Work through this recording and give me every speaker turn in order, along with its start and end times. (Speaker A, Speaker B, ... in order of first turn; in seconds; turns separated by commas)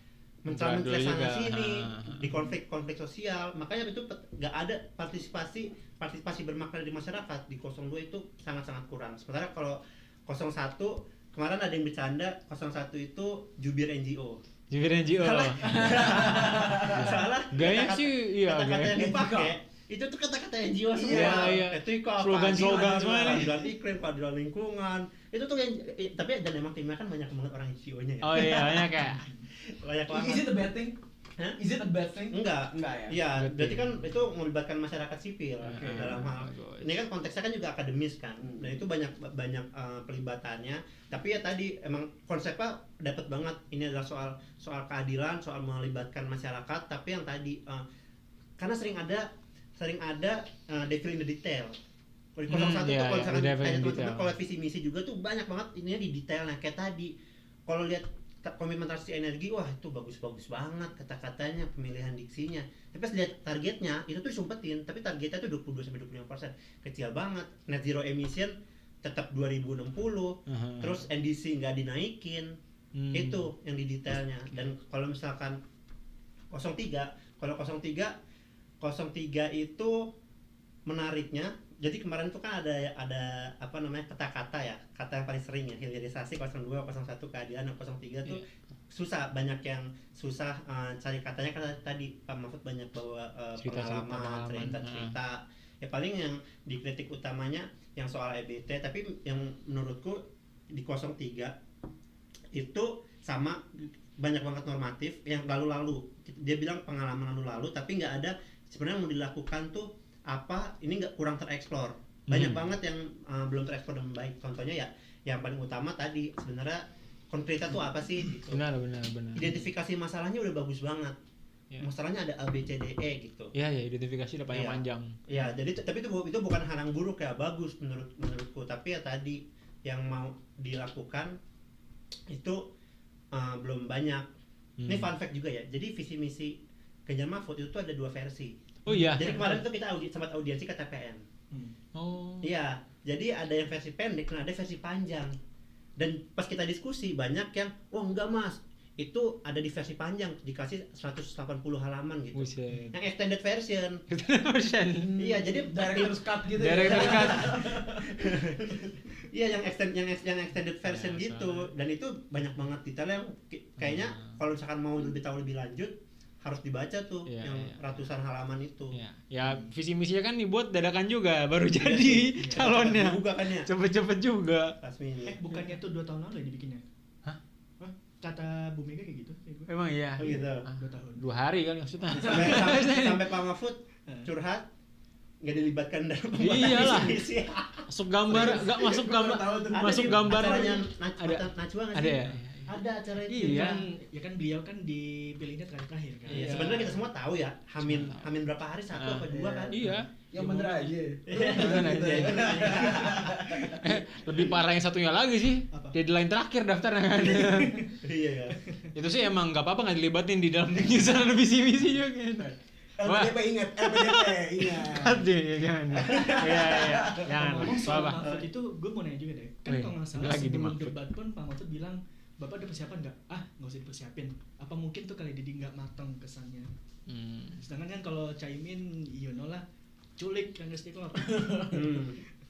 Speaker A: 0.5-14.4, Speaker B: 0.5-2.4, Speaker B: 14.7-19.0, Speaker A: 15.2-29.1, Speaker C: 15.6-17.3, Speaker C: 18.9-19.5, Speaker C: 20.9-21.6, Speaker B: 21.1-23.6, Speaker C: 22.6-23.6, Speaker B: 28.2-29.3, Speaker D: 29.2-29.4, Speaker A: 29.7-30.5, Speaker C: 30.1-31.0, Speaker C: 31.6-33.2, Speaker A: 32.3-47.8, Speaker B: 33.4-34.0, Speaker B: 35.6-37.0, Speaker C: 35.7-36.2, Speaker C: 38.4-38.8, Speaker A: 48.6-51.8, Speaker A: 52.4-57.1, Speaker B: 52.5-54.3, Speaker A: 57.7-72.5, Speaker B: 70.5-71.0, Speaker B: 73.0-73.5, Speaker A: 73.1-75.6, Speaker A: 76.5-78.1, Speaker A: 78.8-80.1, Speaker A: 80.9-101.5, Speaker B: 93.6-95.2, Speaker A: 102.5-118.6, Speaker B: 112.3-112.6, Speaker B: 118.5-119.6, Speaker A: 119.4-121.2, Speaker A: 121.8-123.5, Speaker B: 123.5-125.5, Speaker A: 124.5-131.4, Speaker A: 132.3-132.6, Speaker A: 133.3-134.2, Speaker B: 134.8-135.1, Speaker A: 134.9-138.6, Speaker B: 138.9-139.6, Speaker D: 138.9-139.6, Speaker A: 139.2-141.2, Speaker B: 141.9-142.5, Speaker A: 142.4-145.4, Speaker A: 146.0-154.0, Speaker B: 152.3-152.9, Speaker B: 154.1-155.1, Speaker C: 155.0-158.2, Speaker A: 155.2-156.2, Speaker B: 156.6-157.6, Speaker A: 156.8-168.9, Speaker B: 160.8-161.7, Speaker B: 163.8-164.4, Speaker B: 167.3-168.0, Speaker B: 168.9-174.8, Speaker D: 169.4-169.7, Speaker A: 171.8-173.7, Speaker D: 172.4-172.8, Speaker A: 174.8-175.4, Speaker D: 175.2-176.8, Speaker D: 177.8-181.2, Speaker B: 179.7-183.2, Speaker A: 180.2-180.7, Speaker A: 182.2-184.7, Speaker C: 182.3-182.6, Speaker A: 185.4-187.9, Speaker B: 186.4-187.2, Speaker B: 187.9-192.8, Speaker C: 188.3-190.7, Speaker A: 189.7-193.8, Speaker B: 193.3-193.8, Speaker D: 193.4-197.0, Speaker A: 196.3-199.9, Speaker B: 196.3-196.9, Speaker B: 197.8-198.3, Speaker B: 198.9-200.1, Speaker C: 199.3-204.0, Speaker D: 200.4-200.9, Speaker A: 201.3-203.4, Speaker B: 201.5-203.0, Speaker B: 203.7-207.9, Speaker D: 205.7-206.0, Speaker D: 207.2-207.9, Speaker A: 208.0-208.6, Speaker D: 208.6-208.9, Speaker B: 208.9-218.2, Speaker C: 213.0-215.3, Speaker C: 215.9-217.3, Speaker D: 217.3-226.7, Speaker A: 218.2-218.5, Speaker B: 219.7-221.0, Speaker B: 227.1-227.6, Speaker D: 227.6-229.6, Speaker D: 230.2-231.8, Speaker A: 231.7-232.2